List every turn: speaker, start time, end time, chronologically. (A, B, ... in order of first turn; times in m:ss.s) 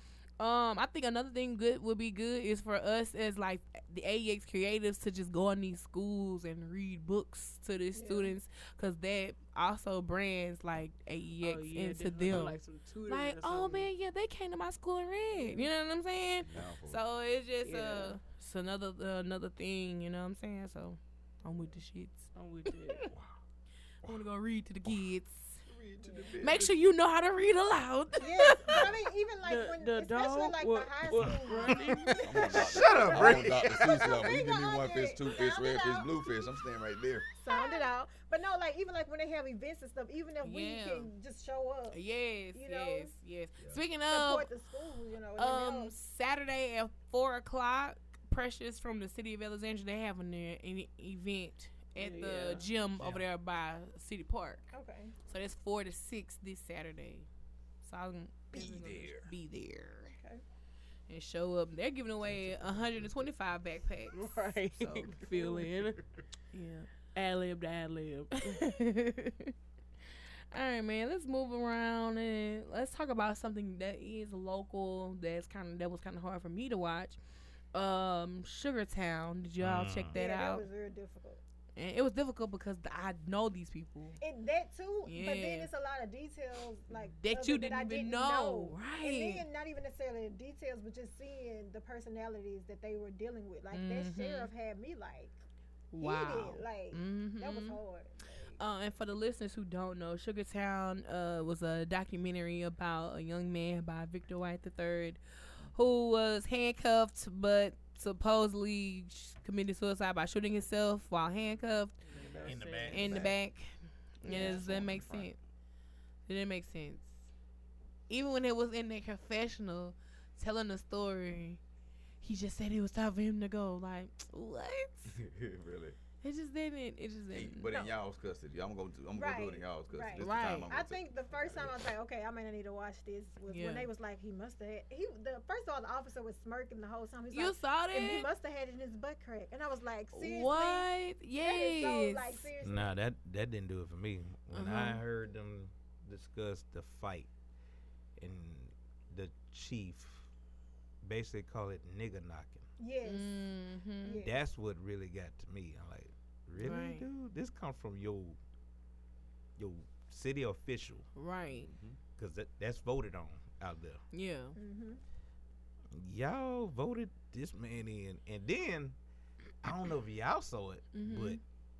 0:00.4-0:22.3 A
0:07.9-0:08.3 B
0:11.4-0:13.9 C
0:16.4-0:17.0 D
0:17.6-0:18.2 C
0:22.3-0:23.1 C
0:24.0-0:25.6 A
0:25.7-0:26.7 D
0:26.0-0:26.3 B
0:26.4-0:28.9 A
0:28.2-0:31.8 B
0:29.4-0:32.2 C
0:31.1-0:31.4 E
0:31.6-0:32.6 A
0:32.2-0:37.3 D
0:32.4-0:36.5 B
0:32.6-0:34.2 E
0:37.4-0:42.0 B
0:37.5-0:37.8 A
0:40.4-0:41.1 A
0:41.9-0:44.5 A
0:42.5-0:43.1 B
0:44.1-0:45.9 B
0:45.4-0:54.7 A
0:52.0-0:52.7 C
0:53.0-0:53.2 E
0:54.7-0:55.1 B
0:55.2-0:57.3 A
0:57.8-1:00.1 A
0:58.7-0:59.2 D
1:01.1-1:05.2 A
1:04.1-1:06.0 C
1:06.5-1:06.9 A
1:07.1-1:08.6 C
1:08.4-1:09.5 A
1:10.5-1:17.2 A
1:17.7-1:20.6 A
1:19.6-1:20.2 E
1:20.1-1:21.4 B
1:21.8-1:24.2 A
1:24.2-1:35.4 B
1:25.0-1:25.7 A
1:27.1-1:29.4 A
1:33.7-1:34.5 A
1:35.9-1:37.8 A
1:36.0-1:38.6 B
1:38.6-1:52.0 A
1:52.0-1:53.2 C
1:52.1-1:53.4 D
1:52.4-1:53.3 E
1:52.9-1:53.7 A
1:54.2-1:55.4 A
1:54.3-1:54.6 B
1:54.3-1:55.3 D
1:56.3-1:57.1 A
1:58.1-2:01.6 A
2:02.2-2:05.2 A
2:05.1-2:06.0 D
2:06.2-2:07.7 A
2:07.3-2:11.8 D
2:09.1-2:20.9 B
2:10.2-2:10.7 A
2:13.5-2:13.9 A
2:17.3-2:18.3 A
2:20.1-2:22.5 A
2:21.4-2:22.9 B
2:22.6-2:27.3 E
2:24.5-2:25.0 A
2:28.2-2:30.3 E
2:31.0-2:32.6 E
2:32.8-2:34.4 B
2:33.0-2:34.2 A
2:34.2-2:38.4 E
2:36.6-2:37.0 A
2:39.6-2:41.1 E
2:41.2-2:41.7 A
2:41.5-2:42.0 D
2:42.2-2:44.0 E
2:44.1-2:44.6 A
2:44.6-2:45.0 B
2:45.9-2:49.0 E
2:49.6-2:51.4 E
2:50.9-2:51.4 A